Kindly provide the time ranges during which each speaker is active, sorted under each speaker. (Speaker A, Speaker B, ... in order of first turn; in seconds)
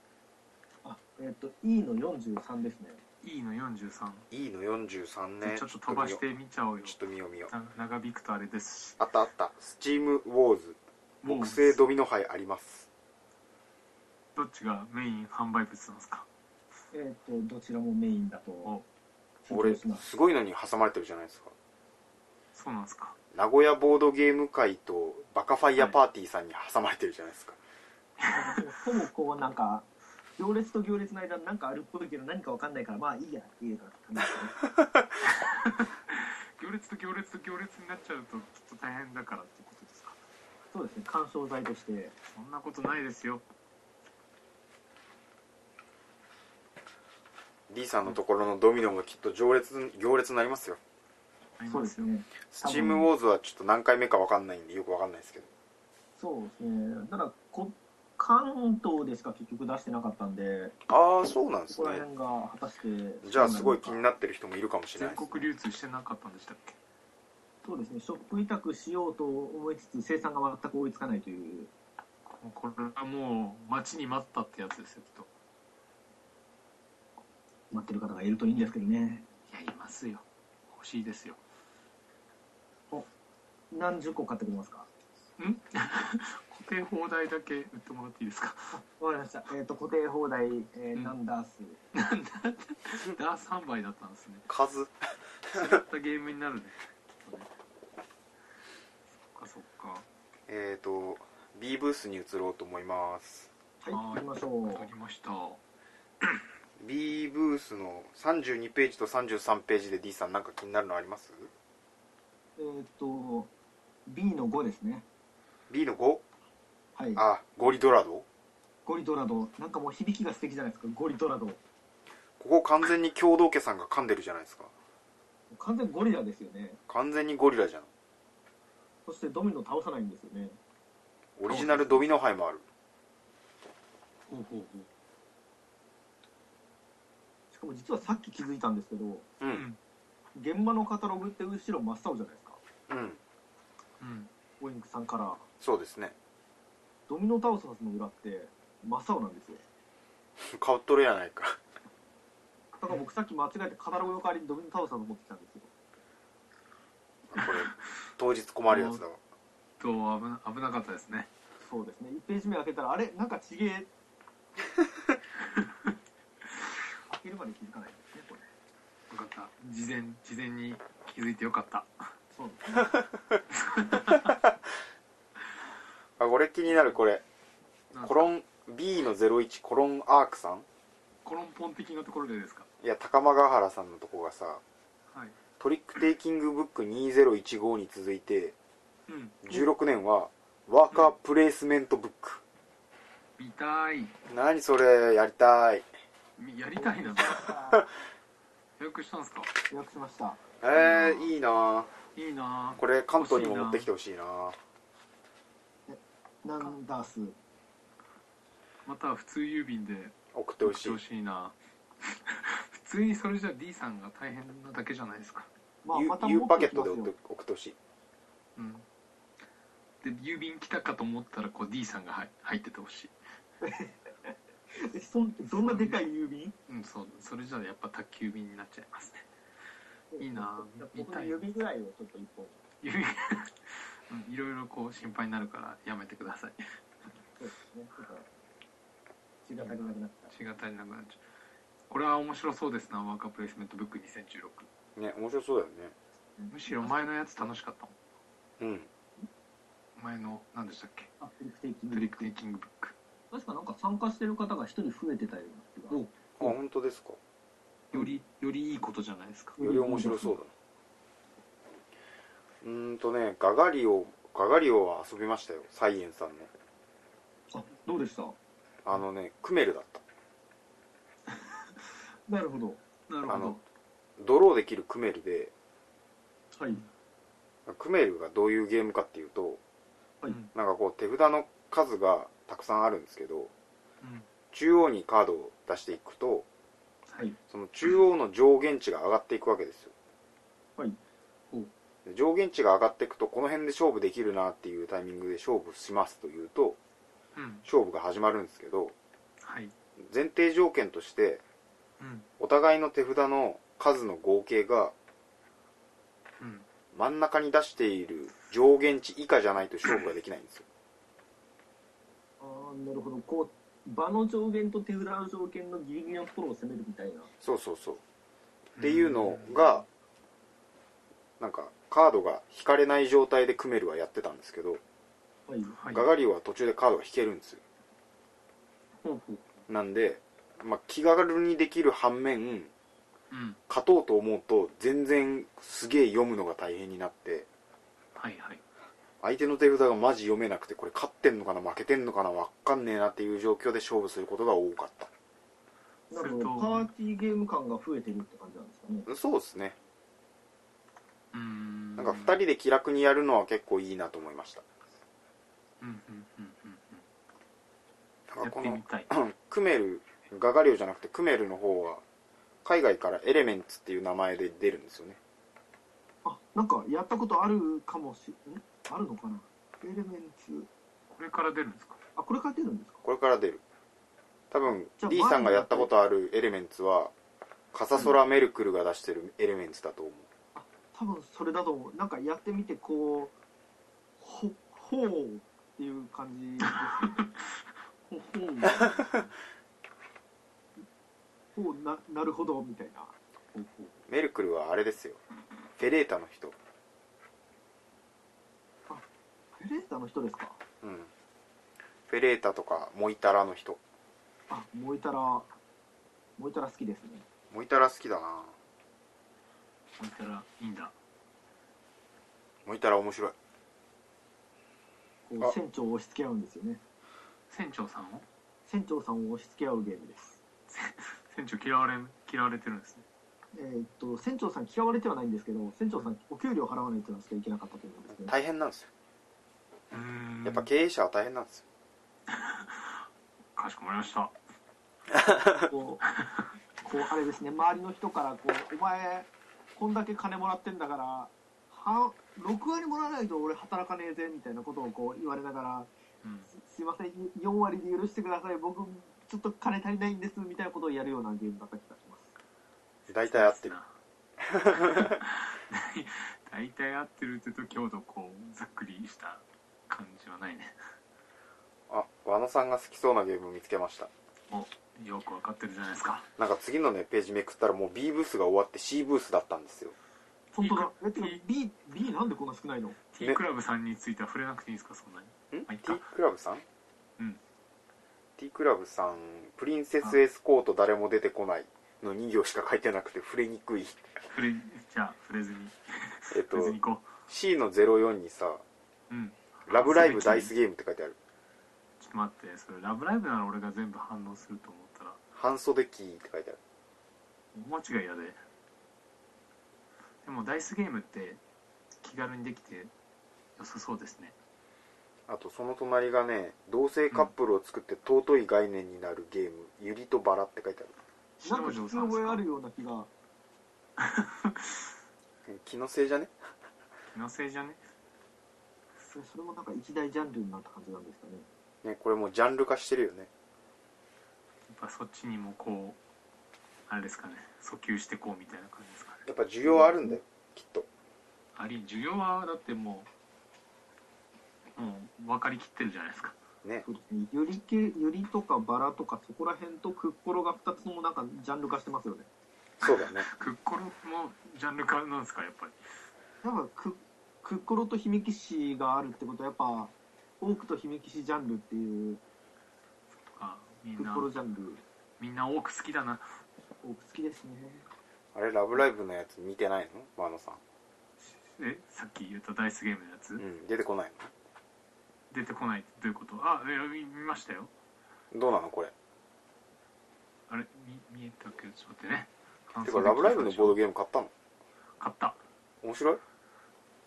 Speaker A: 0.8-3.0, 16.9-18.7, 19.4-20.0, 28.3-29.9, 30.4-34.6, 40.7-42.1, 51.7-53.1, 56.2-60.7, 61.7-64.0, 67.6-71.7, 77.7-79.2, 83.7-84.9, 88.7-91.8, 103.8-104.9, 112.6-113.5, 114.1-115.0, 117.0-117.2, 118.8-121.6, 125.5-126.8, 129.1-130.6, 137.5-139.3, 140.3-142.6, 144.6-145.4, 147.1-149.6, 152.8-155.7, 161.6-163.9, 167.1-168.5, 172.3-173.0, 196.8-197.8, 199.7-200.4, 205.9-207.3, 215.8-217.1, 223.6-226.5, 230.1-232.6, 237.4-238.3, 239.4-240.3, 246.4-247.1, 251.2-252.3, 253.3-256.0, 259.6-260.4, 267.5-268.4, 272.3-272.8, 276.6-276.8, 312.4-317.3, 325.5-325.8, 346.1-349.1, 366.2-370.7, 372.1-373.0, 375.0-375.9, 380.5-383.3, 384.2-387.2, 391.5-393.1, 399.6-400.6, 404.5-405.5, 406.4-407.2, 415.3-416.8, 418.6-420.4, 423.5-428.3, 435.5-436.0, 436.8-445.9, 446.5-452.3, 470.6-473.0, 511.4-513.1, 519.0-521.5, 529.6-530.2, 536.8-542.3, 546.4-552.2, 554.0-554.8, 556.8-557.9
Speaker B: 3.2-4.3, 5.4-7.0, 7.5-9.0, 11.2-11.8, 14.3-16.3, 22.5-23.1, 28.2-28.6, 35.3-40.2, 42.3-43.4, 51.6-52.1, 65.0-66.8, 72.2-75.3, 79.5-81.4, 85.4-88.8, 91.9-94.5, 95.5-97.5, 99.3-100.1, 103.9-105.6, 131.5-132.1, 134.3-134.9, 139.5-139.8, 144.0-144.3, 157.4-157.6, 158.7-159.0, 159.8-161.3, 169.1-171.9, 173.6-174.4, 177.9-178.3, 181.2-182.7, 185.1-185.3, 189.1-189.4, 193.4-194.2, 196.4-197.5, 198.8-199.5, 200.7-201.3, 202.1-203.9, 208.8-215.5, 218.6-218.8, 220.0-223.1, 225.6-226.0, 226.7-229.3, 230.2-231.5, 232.8-236.7, 240.3-241.2, 241.9-244.7, 246.5-247.9, 250.0-251.1, 251.9-252.9, 255.9-256.5, 257.9-259.6, 273.1-273.6, 284.0-284.3, 297.4-297.6, 299.4-299.7, 302.0-302.3, 306.4-306.7, 318.8-319.8, 325.8-326.1, 329.0-329.5, 333.3-333.6, 338.1-338.6, 346.1-346.9, 351.3-352.4, 355.8-357.1, 358.4-359.1, 371.1-372.0, 386.7-387.2, 388.1-389.2, 393.5-394.0, 410.0-410.9, 417.5-418.2, 420.7-423.0, 429.9-430.7, 432.3-433.0, 433.6-434.3, 436.2-436.5, 446.2-446.5, 453.1-453.9, 454.7-460.7, 464.5-466.3, 470.5-471.4, 473.1-476.0, 484.2-487.1, 489.1-490.5, 492.0-495.2, 497.5-498.4, 500.2-501.4, 502.0-502.9, 503.6-504.3, 511.4-512.4, 514.0-514.8, 517.1-517.8, 524.7-526.0, 526.9-529.2, 531.5-533.1, 534.7-536.4, 542.8-545.8, 553.3-554.3, 555.2-556.3, 561.2-563.4, 565.3-567.7, 570.5-573.8, 575.0-575.4
Speaker C: 4.3-6.2, 6.8-7.5, 9.0-12.9, 19.5-21.5, 23.3-27.6, 47.7-50.8, 52.5-55.5, 60.9-62.0, 63.2-65.5, 94.5-95.0, 100.5-103.5, 106.8-111.5, 115.7-116.2, 117.2-118.2, 122.4-124.7, 126.9-127.9, 131.4-132.6, 139.4-139.7, 142.9-143.2, 145.6-146.1, 150.4-151.6, 157.3-159.2, 176.2-177.2, 178.0-180.7, 182.8-184.6, 185.6-188.5, 189.4-192.4, 194.3-195.8, 200.6-201.9, 202.7-204.6, 210.3-211.0, 215.9-217.8, 244.9-245.9, 248.6-248.9, 256.4-257.2, 259.6-260.5, 262.6-266.5, 268.8-270.0, 273.2-273.6, 274.2-275.5, 277.7-279.6, 280.5-283.5, 284.5-286.4, 287.5-289.9, 292.1-296.8, 297.6-298.9, 300.0-301.4, 302.4-304.9, 306.9-310.6, 317.4-318.0, 318.8-319.8, 321.4-324.8, 325.9-327.6, 329.7-332.7, 333.7-337.5, 339.2-345.1, 349.1-349.8, 352.0-354.6, 358.3-362.0, 362.6-365.2, 373.0-373.6, 374.5-377.1, 377.7-380.3, 394.1-395.2, 395.8-396.6, 400.8-401.1, 402.1-403.8, 407.5-408.5, 412.6-413.3, 428.1-428.9, 430.4-431.6, 453.1-453.7, 454.4-455.1, 461.9-464.1, 466.4-469.9, 475.5-476.6, 478.4-484.1, 486.3-488.6, 489.7-491.1, 495.3-496.6, 505.3-510.9, 515.5-516.3, 521.8-523.3, 529.2-530.9, 542.8-543.2, 558.3-560.6, 563.4-564.3, 568.3-568.9, 572.8-574.3, 575.8-576.2